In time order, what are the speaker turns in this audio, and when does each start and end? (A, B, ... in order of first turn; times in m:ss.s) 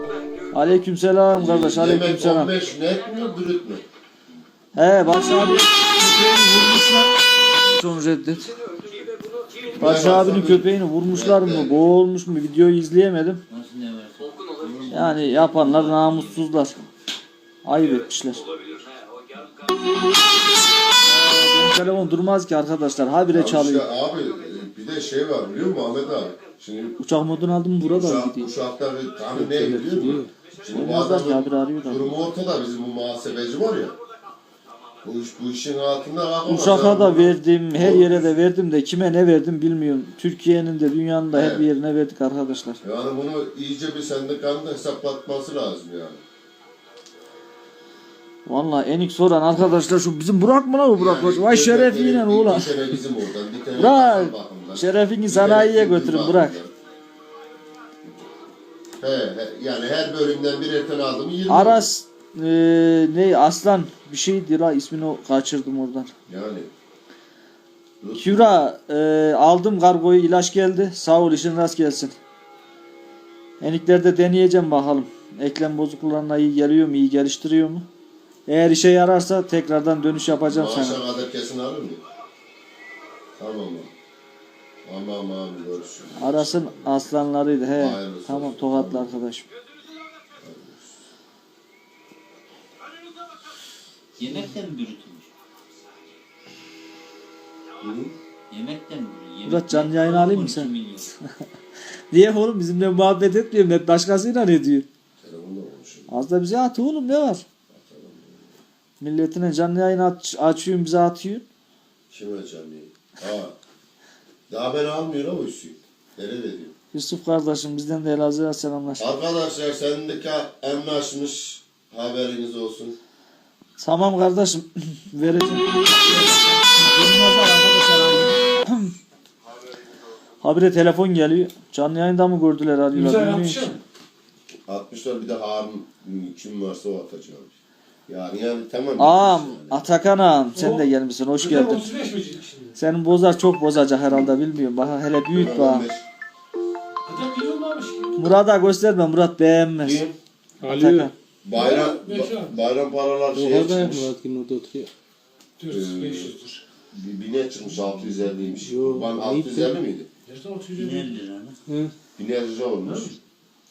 0:00.5-0:02.5 A
0:01.3-0:03.8 B
0:04.8-0:07.1 A
0:07.7-0:08.5 A
0:09.8-0:11.8 B
0:09.8-0:13.4 A
0:13.5-0:16.4 C
0:14.9-0:16.8 A
0:17.6-0:18.4 A
0:21.0-0:23.9 A
0:23.3-0:27.0 B
0:27.0-0:28.5 A
0:27.8-0:34.0 B
0:29.3-0:30.3 D
0:30.6-0:32.1 A
0:35.0-0:38.2 B
0:36.4-0:42.8 A
0:41.3-0:41.7 B
0:42.8-0:46.2 B
0:48.4-0:52.7 A
0:50.9-0:56.7 B
0:53.8-0:56.6 A
0:59.0-1:01.9 B
1:01.5-1:06.1 A
1:06.3-1:06.7 B
1:08.0-1:08.5 B
1:08.2-1:12.1 A
1:13.6-1:17.9 A
1:18.5-1:21.0 A
1:20.4-1:22.0 B
1:23.4-1:23.9 B
1:24.8-1:27.0 B
1:26.2-1:29.5 A
1:27.7-1:29.2 B
1:30.4-1:31.0 B
1:34.2-1:35.3 C
1:37.8-1:38.1 B
1:38.5-1:41.1 C
1:39.4-1:40.7 A
1:42.1-1:44.9 A
1:45.2-1:46.1 B
1:46.1-1:47.4 A
1:47.7-1:48.4 B
1:49.0-1:51.4 A
1:52.1-1:53.6 B
1:54.5-1:56.7 B
1:56.9-1:59.0 A
1:59.0-2:03.0 B
2:03.8-2:08.9 A
2:09.4-2:10.2 B
2:10.4-2:13.7 A
2:12.9-2:13.8 E
2:14.7-2:17.5 B
2:18.1-2:19.9 B
2:19.0-2:21.8 A
2:20.5-2:22.8 E
2:22.8-2:25.9 A
2:25.3-2:26.0 B
2:27.0-2:28.4 E
2:28.2-2:30.0 A
2:29.8-2:30.2 B
2:30.6-2:31.1 D
2:30.8-2:31.1 A
2:31.4-2:34.1 B
2:31.5-2:32.6 E
2:33.3-2:34.9 D
2:35.6-2:36.6 E
2:35.7-2:36.3 B
2:36.9-2:40.1 B
2:37.7-2:38.5 E
2:38.6-2:39.8 D
2:40.2-2:41.2 E
2:40.7-2:41.6 C
2:41.7-2:41.9 D
2:42.2-2:43.1 B
2:42.8-2:43.2 E